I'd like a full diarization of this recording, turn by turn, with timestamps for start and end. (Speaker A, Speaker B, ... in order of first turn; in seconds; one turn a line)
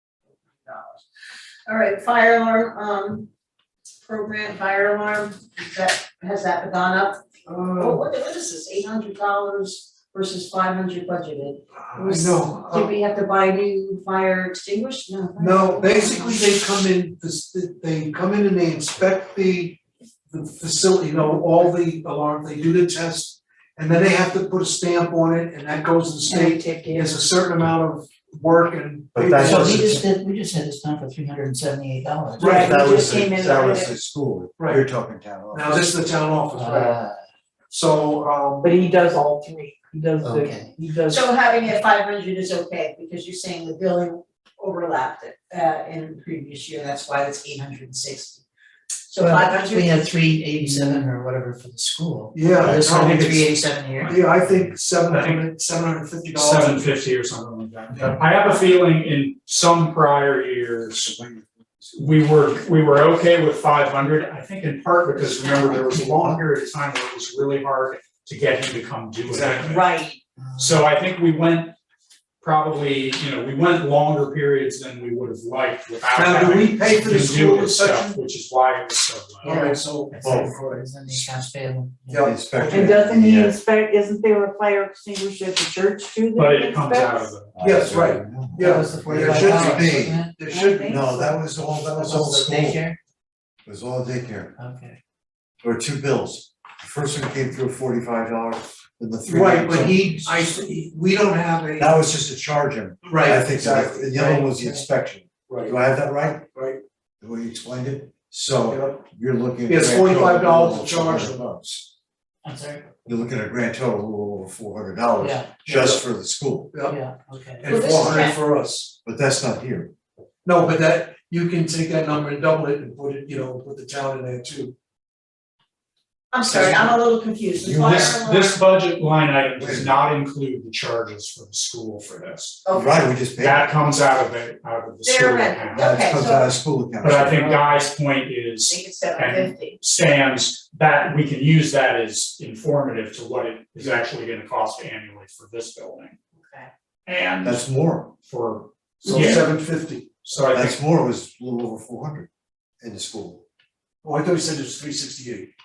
Speaker A: 0.6-1.0
Speaker A: 1.7-3.3
Speaker A: 4.0-16.4
Speaker B: 7.5-8.0
Speaker B: 11.9-12.9
Speaker B: 15.4-30.0
Speaker C: 26.3-27.1
Speaker D: 29.1-29.9
Speaker C: 29.4-32.7
Speaker B: 32.4-32.8
Speaker A: 32.4-33.9
Speaker D: 32.4-35.9
Speaker B: 34.6-34.8
Speaker B: 35.5-37.0
Speaker C: 36.5-37.2
Speaker B: 37.7-38.8
Speaker E: 38.6-41.3
Speaker C: 40.2-40.8
Speaker A: 41.1-48.5
Speaker A: 49.1-50.0
Speaker C: 49.2-54.2
Speaker B: 52.3-56.9
Speaker F: 54.1-55.5
Speaker F: 56.4-61.1
Speaker D: 60.9-62.2
Speaker F: 62.0-69.8
Speaker D: 65.4-66.4
Speaker B: 69.3-69.8
Speaker C: 69.6-70.8
Speaker F: 70.6-71.7
Speaker F: 72.4-79.5
Speaker B: 76.1-78.2
Speaker B: 79.4-80.8
Speaker C: 79.4-82.3
Speaker D: 80.2-80.6
Speaker B: 82.1-83.0
Speaker D: 82.2-83.6
Speaker E: 82.7-85.1
Speaker C: 84.2-86.3
Speaker E: 85.6-87.3
Speaker F: 86.4-87.5
Speaker D: 87.5-92.8
Speaker B: 87.6-91.0
Speaker C: 88.6-91.3
Speaker B: 91.9-92.3
Speaker C: 92.0-93.0
Speaker D: 93.7-94.5
Speaker C: 94.6-95.0
Speaker D: 95.6-100.6
Speaker B: 99.3-102.1
Speaker D: 101.8-106.5
Speaker B: 103.0-104.5
Speaker C: 104.3-104.8
Speaker B: 105.5-105.8
Speaker B: 106.5-106.8
Speaker D: 107.2-111.9
Speaker B: 108.7-109.0
Speaker B: 109.7-111.4
Speaker C: 112.4-112.9
Speaker D: 113.1-116.7
Speaker C: 115.2-115.5
Speaker B: 115.6-116.0
Speaker B: 116.7-117.0
Speaker C: 116.8-118.3
Speaker B: 117.6-118.9
Speaker A: 117.7-118.4
Speaker D: 119.0-119.9
Speaker B: 120.5-124.7
Speaker A: 126.3-128.6
Speaker D: 126.5-126.9
Speaker D: 127.6-128.2
Speaker F: 127.7-132.6
Speaker D: 129.6-129.9
Speaker A: 132.7-133.1
Speaker D: 132.7-133.7
Speaker F: 133.4-135.9
Speaker A: 135.1-136.5
Speaker D: 135.8-137.6
Speaker F: 137.0-146.2
Speaker A: 138.7-139.8
Speaker A: 146.4-146.7
Speaker F: 147.1-147.7
Speaker D: 147.4-148.1
Speaker F: 148.2-149.5
Speaker B: 149.1-150.3
Speaker D: 149.1-149.4
Speaker F: 150.3-150.8
Speaker D: 150.5-152.3
Speaker D: 152.8-153.4
Speaker B: 154.0-155.5